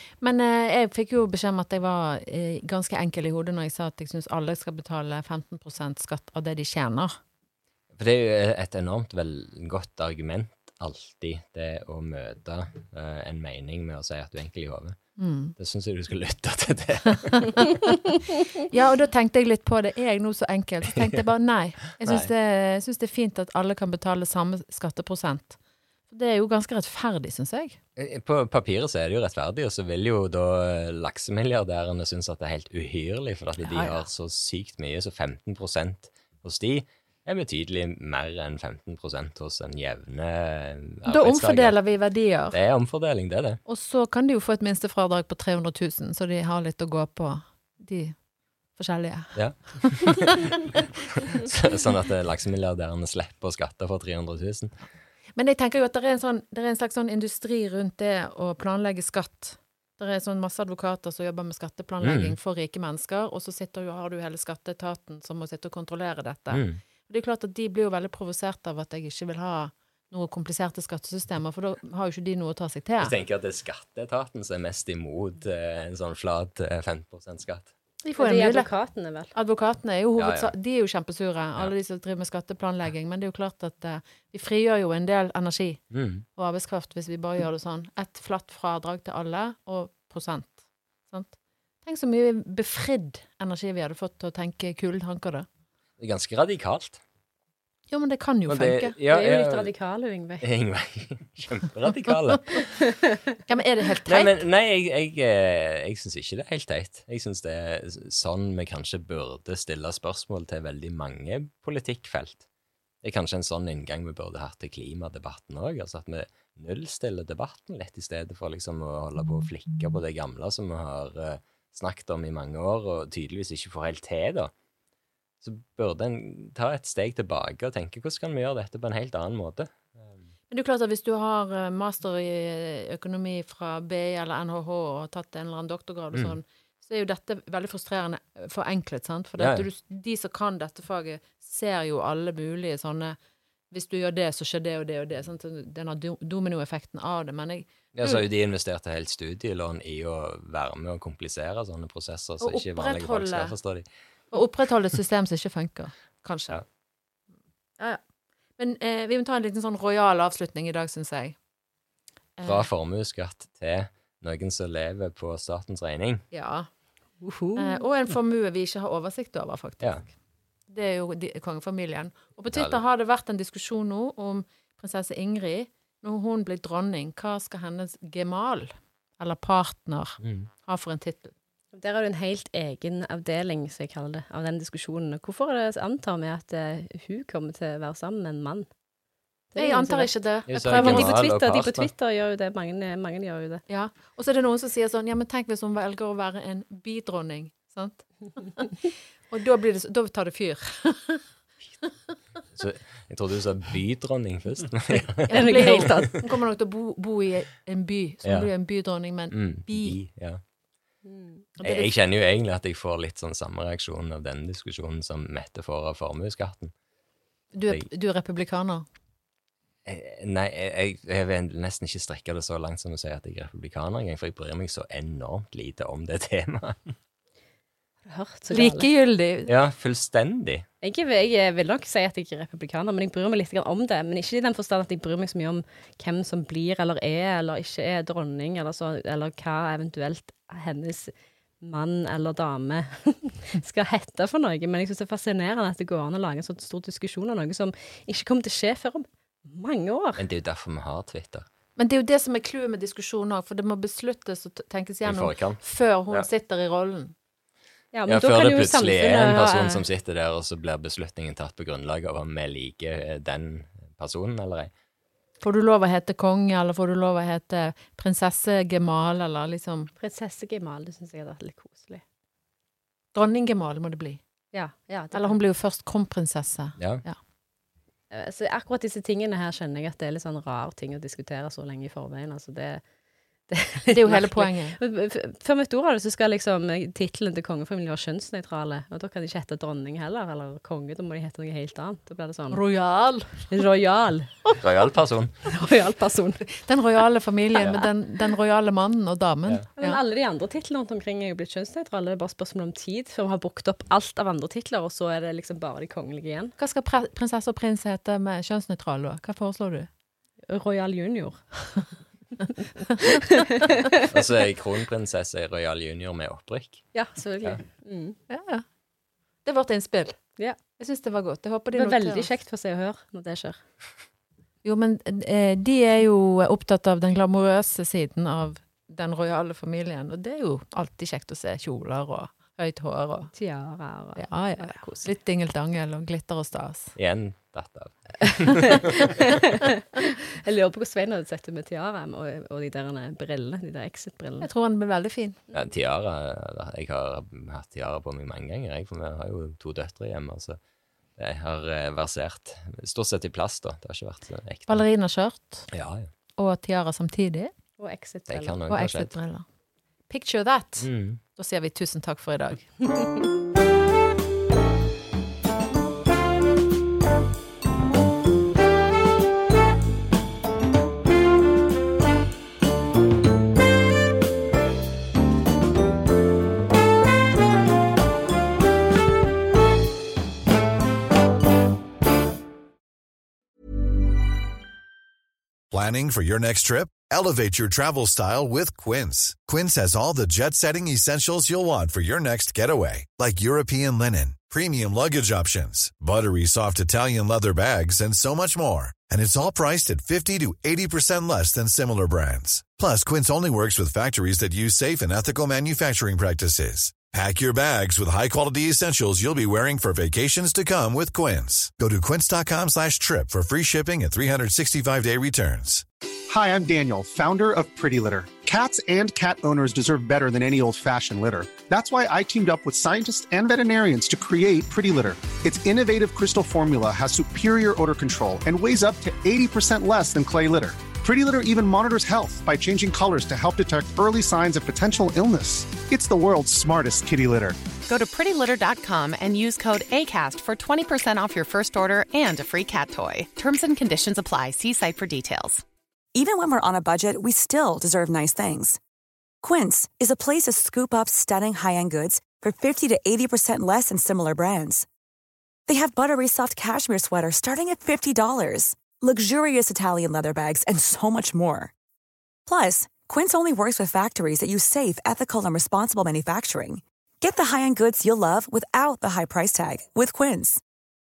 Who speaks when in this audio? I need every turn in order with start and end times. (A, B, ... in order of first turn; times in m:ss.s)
0:00.2-0:07.1 A
0:08.0-0:15.0 B
0:15.2-0:15.5 A
0:15.6-0:17.7 B
0:17.5-0:17.7 A
0:18.7-0:25.6 A
0:22.0-0:22.3 B
0:26.1-0:27.8 A
0:28.0-0:41.8 B
0:33.6-0:34.0 A
0:41.1-0:42.6 A
0:42.5-0:43.6 B
0:43.6-0:48.2 A
0:48.8-0:50.3 A
0:49.3-0:50.4 B
0:51.3-0:54.7 B
0:55.4-1:13.1 A
1:02.0-1:02.4 B
1:06.5-1:06.8 B
1:13.0-1:17.7 B
1:18.0-1:18.7 A
1:18.2-1:19.3 C
1:19.3-1:25.8 A
1:20.2-1:20.5 B
1:25.9-1:26.2 B
1:26.4-1:35.4 A
1:36.0-1:37.0 B
1:37.9-1:39.0 A
1:38.5-1:39.7 B
1:39.1-1:40.4 C
1:40.4-1:42.8 B
1:42.9-1:43.4 C
1:43.5-1:44.3 A
1:44.1-1:52.4 B
1:53.0-2:04.5 B
2:05.4-2:10.2 B
2:10.5-2:23.2 A
2:19.4-2:19.6 B
2:23.7-2:28.2 A
2:27.9-2:33.8 B
2:32.4-2:33.5 A
2:34.3-2:36.6 A
2:38.6-2:41.4 A
2:42.4-2:42.7 A
2:42.4-2:46.2 B
2:46.3-2:46.7 A
2:47.2-2:47.8 C
2:47.6-2:50.1 A
2:50.7-3:01.3 A
2:52.5-2:52.8 B
3:00.2-3:00.5 B
3:01.7-3:08.7 C
3:09.5-3:13.6 C
3:09.6-3:11.2 A
3:10.5-3:11.9 B
3:13.7-3:21.2 A
3:22.5-3:26.0 B
3:25.3-3:30.0 A
3:25.3-3:26.2 C
3:28.2-3:28.5 B
3:29.3-3:30.4 B
3:31.0-3:31.5 C
3:31.6-3:31.9 A
3:31.6-3:36.7 B
3:37.5-3:38.8 A
3:39.8-3:46.9 B
3:48.0-3:48.9 C
3:48.5-3:49.5 A
3:49.5-3:50.6 B
3:50.8-4:10.2 C
4:10.2-4:11.4 B
4:11.8-4:17.1 A
4:15.0-4:16.3 B
4:17.9-4:19.8 C
4:18.1-4:24.7 B
4:25.4-4:29.9 A
4:30.0-4:32.0 C
4:33.1-4:34.2 A
4:34.5-4:35.4 C
4:35.1-4:37.2 A
4:36.8-4:37.0 B
4:38.1-4:42.8 C
4:43.5-4:52.6 C
4:43.9-4:44.8 A
4:52.5-4:53.5 A
4:53.5-4:54.3 C
4:54.6-4:55.3 B
4:55.5-4:56.4 C
4:56.5-5:00.0 A
4:59.8-5:06.5 C
5:06.6-5:09.9 A
5:10.5-5:11.4 C
5:13.1-5:14.1 C
5:14.1-5:17.6 B
5:16.9-5:18.2 C
5:18.3-5:18.6 A
5:19.4-5:22.3 A
5:20.4-5:20.6 C
5:21.7-5:23.6 C
5:24.6-5:33.3 A
5:33.3-5:35.1 C
5:34.2-5:36.9 A
5:37.0-5:38.8 B
5:39.2-5:44.5 C
5:44.4-5:45.4 A
5:45.5-5:50.6 B
5:51.2-5:54.8 B
5:54.7-5:55.7 A
5:55.7-5:56.1 B
5:56.4-5:57.5 A
5:57.8-5:58.6 C
5:58.3-5:59.1 B
5:58.7-5:59.4 A
6:00.1-6:02.7 A
6:00.8-6:01.2 B
6:25.7-6:55.8 D
6:56.3-7:17.6 E
7:17.8-7:25.6 F
7:26.2-7:28.8 G
7:29.4-7:34.9 G
7:35.7-7:41.7 G
7:42.5-7:50.6 G